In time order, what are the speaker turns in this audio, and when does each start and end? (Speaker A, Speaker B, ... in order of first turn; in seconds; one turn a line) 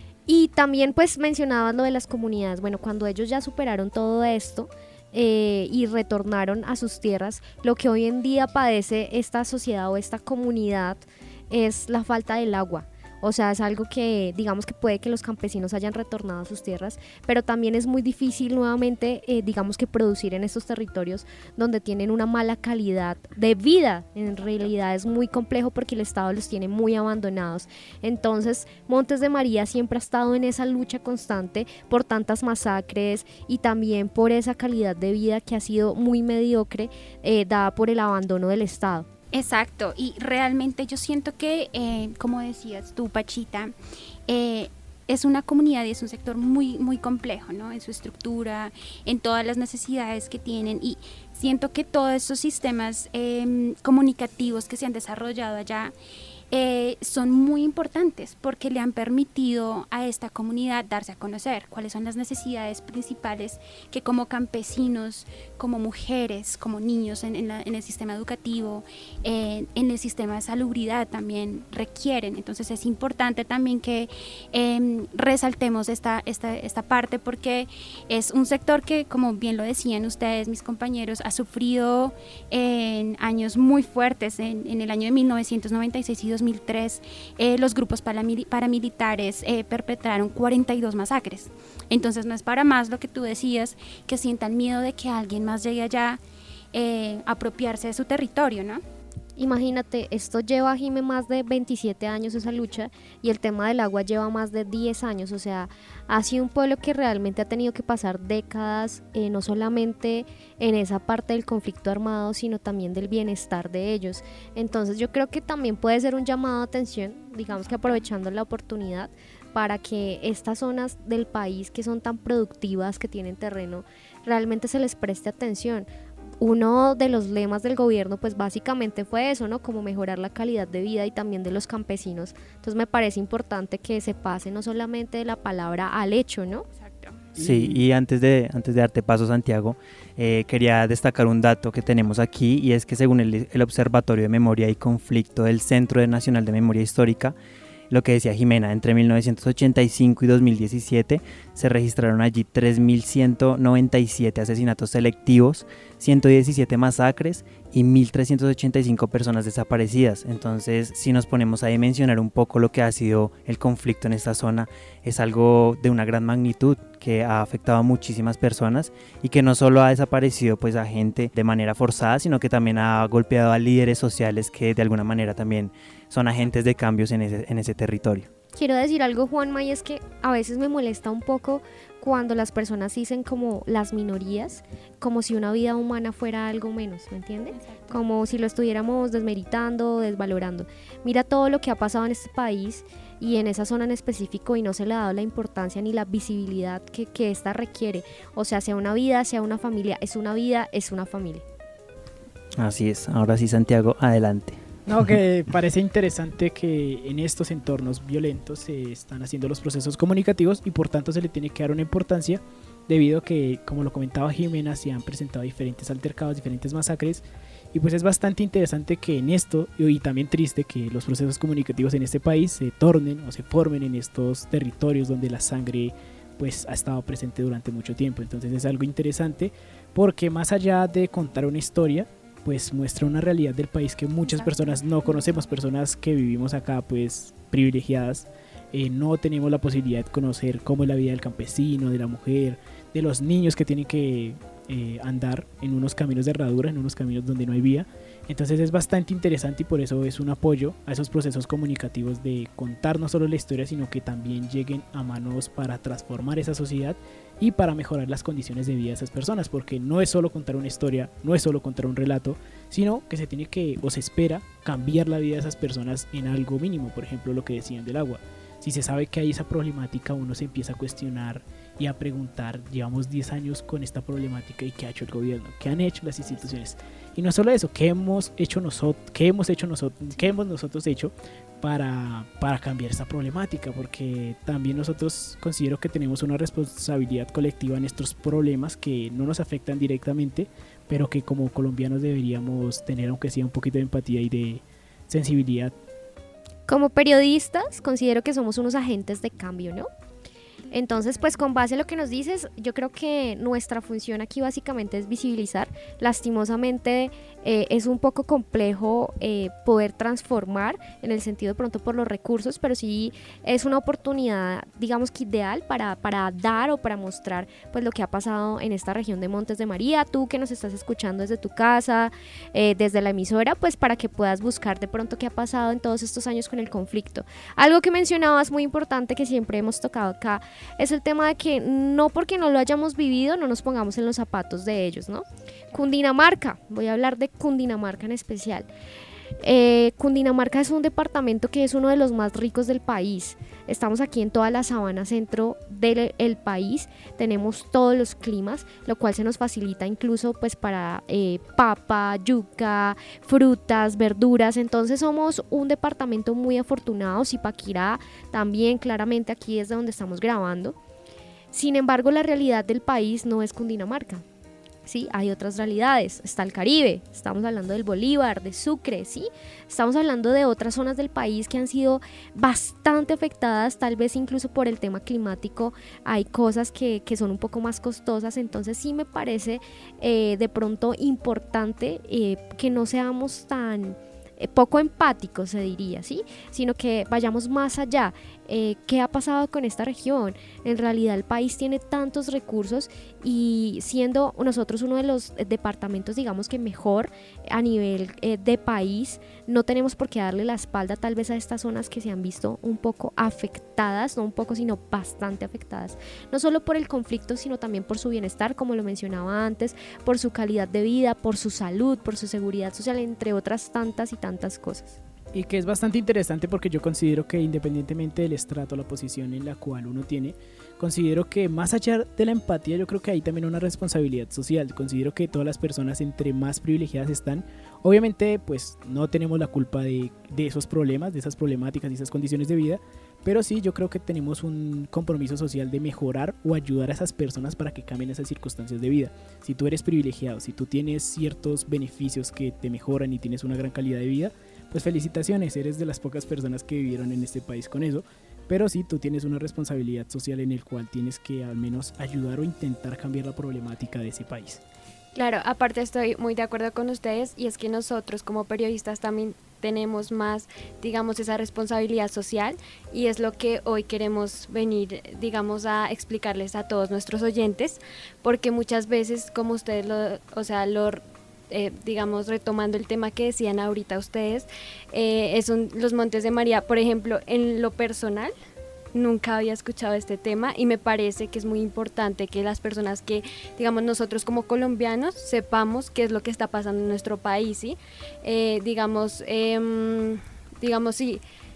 Speaker A: 0.3-39.1
Speaker B: 24.4-24.7
Speaker B: 39.3-43.7
Speaker B: 44.3-55.9
Speaker B: 56.5-96.2
Speaker B: 96.7-98.8
Speaker A: 99.3-125.9
Speaker B: 117.5-118.0
Speaker A: 126.4-136.7
Speaker B: 136.8-137.2
Speaker C: 137.3-137.8
Speaker D: 137.4-147.3
Speaker D: 147.9-178.3
Speaker A: 178.5-201.4
Speaker B: 187.5-188.0
Speaker D: 202.6-205.1
Speaker C: 204.8-295.7
Speaker B: 234.2-235.2
Speaker A: 296.7-299.9
Speaker B: 300.6-301.3
Speaker A: 300.7-338.7
Speaker A: 339.4-360.8
Speaker A: 361.5-364.2
Speaker A: 364.9-415.0
Speaker C: 415.3-454.6
Speaker E: 455.1-478.3
Speaker E: 478.9-491.2